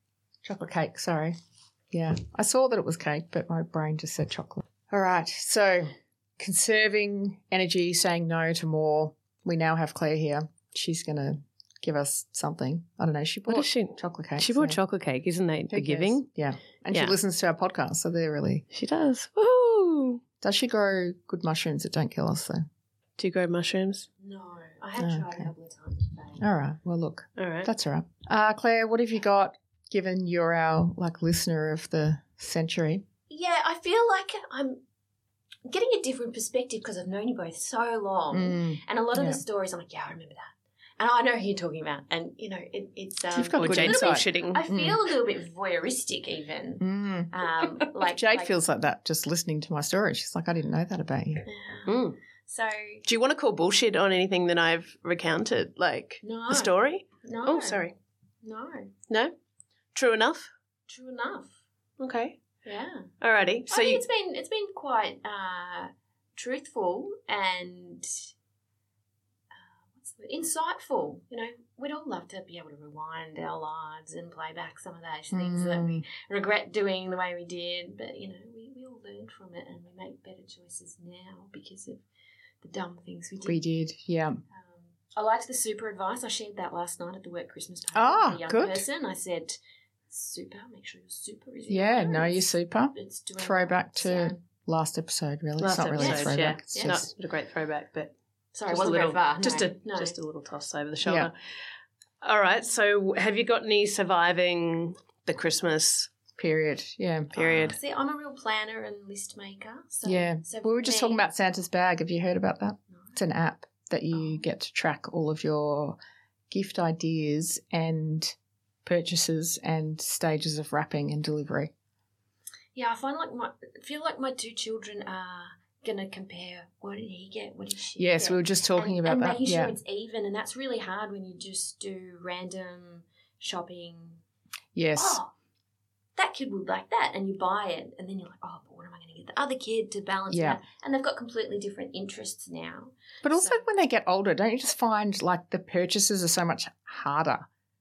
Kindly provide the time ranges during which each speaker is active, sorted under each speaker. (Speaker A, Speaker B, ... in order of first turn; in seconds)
Speaker A: 0.4-1.3, 1.9-14.8, 15.7-18.6, 20.4-22.6, 25.0-25.5, 26.4-33.0, 38.3-39.4, 43.3-45.0, 46.8-47.3, 48.0-51.5, 75.3-76.0, 83.4-84.4, 87.9-88.8, 91.7-97.1, 101.0-101.3, 106.4-107.8, 110.0-116.0, 116.5-121.7, 128.0-129.7, 134.7-135.2, 140.3-140.6, 143.2-147.5
Speaker B: 13.5-16.3, 18.7-20.2, 23.2-24.1, 27.4-27.7, 43.6-44.6, 51.9-52.2, 53.0-57.9, 59.1-59.3, 59.9-60.5, 62.0-62.4, 63.2-64.0, 95.6-98.1, 98.7-101.3, 102.2-106.1, 107.3-107.8
Speaker C: 24.2-26.4, 33.3-34.8, 35.6-48.5, 51.5-53.0, 56.2-57.9, 58.4-58.9, 60.9-61.5, 62.6-63.1, 63.7-68.3, 69.5-82.0, 82.6-83.6, 84.5-89.6, 90.1-94.4, 96.0-97.0, 98.5-100.1, 107.6-111.2, 122.7-134.2, 135.0-135.3, 136.2-143.7